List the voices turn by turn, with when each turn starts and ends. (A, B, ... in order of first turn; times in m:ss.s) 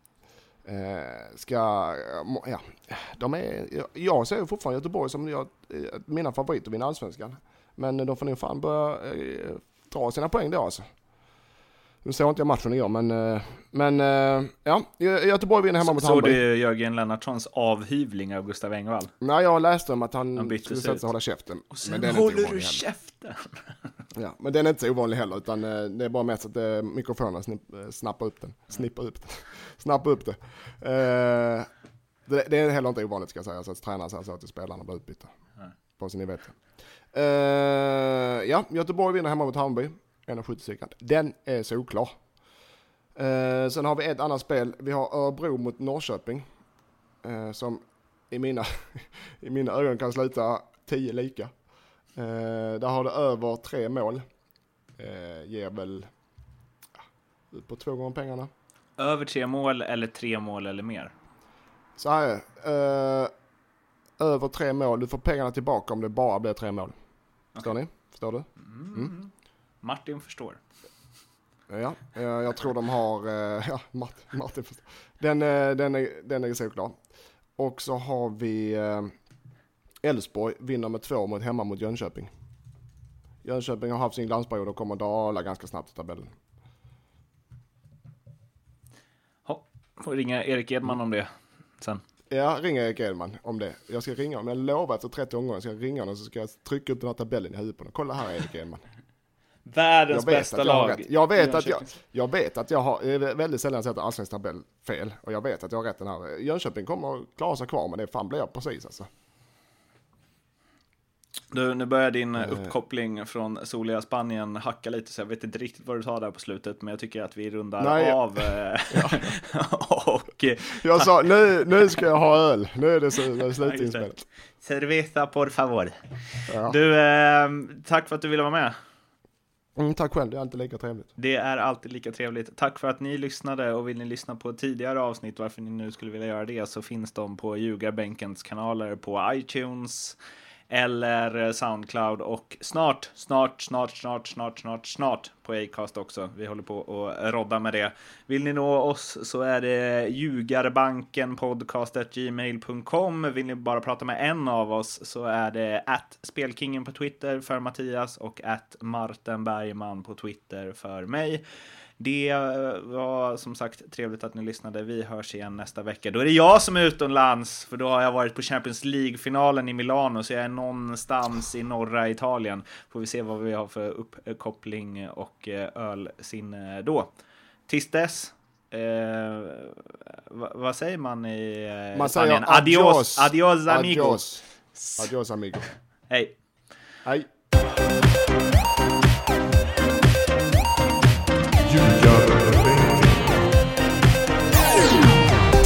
0:00.6-0:10.8 A
0:12.0-0:16.4 A
0:15.8-0:19.1 B
0:19.2-0:22.8 A
0:20.4-0:21.0 B
0:21.7-0:23.9 B
0:24.1-0:31.7 A
0:32.3-0:35.3 A
0:36.0-0:36.6 A
0:37.1-0:42.1 A
0:43.2-0:46.4 A
0:47.2-0:51.5 A
0:52.2-0:54.2 A
0:55.0-0:56.1 A
0:57.5-0:58.5 A
0:59.0-1:01.1 B
1:02.0-1:03.3 A
1:04.2-1:06.9 A
1:07.6-1:09.1 A
1:08.6-1:10.6 B
1:11.7-1:17.0 A
1:17.6-1:19.1 A
1:20.0-1:22.3 A
1:23.4-1:26.3 A
1:29.4-1:32.0 B
1:32.3-1:38.8 A
1:39.6-1:41.9 B
1:40.1-1:49.1 A
1:51.5-2:01.1 B
1:57.8-1:59.2 A
2:00.8-2:04.2 A
2:03.4-2:04.1 B
2:04.6-2:06.0 B
2:06.5-2:06.8 A
2:06.6-2:08.7 B
2:09.8-2:11.1 A
2:11.2-2:20.2 B
2:20.7-2:41.4 B
2:42.0-2:57.1 B
2:57.7-3:05.1 B
3:01.9-3:04.4 A
3:05.0-3:05.7 A
3:06.1-3:06.3 B
3:11.6-3:13.3 A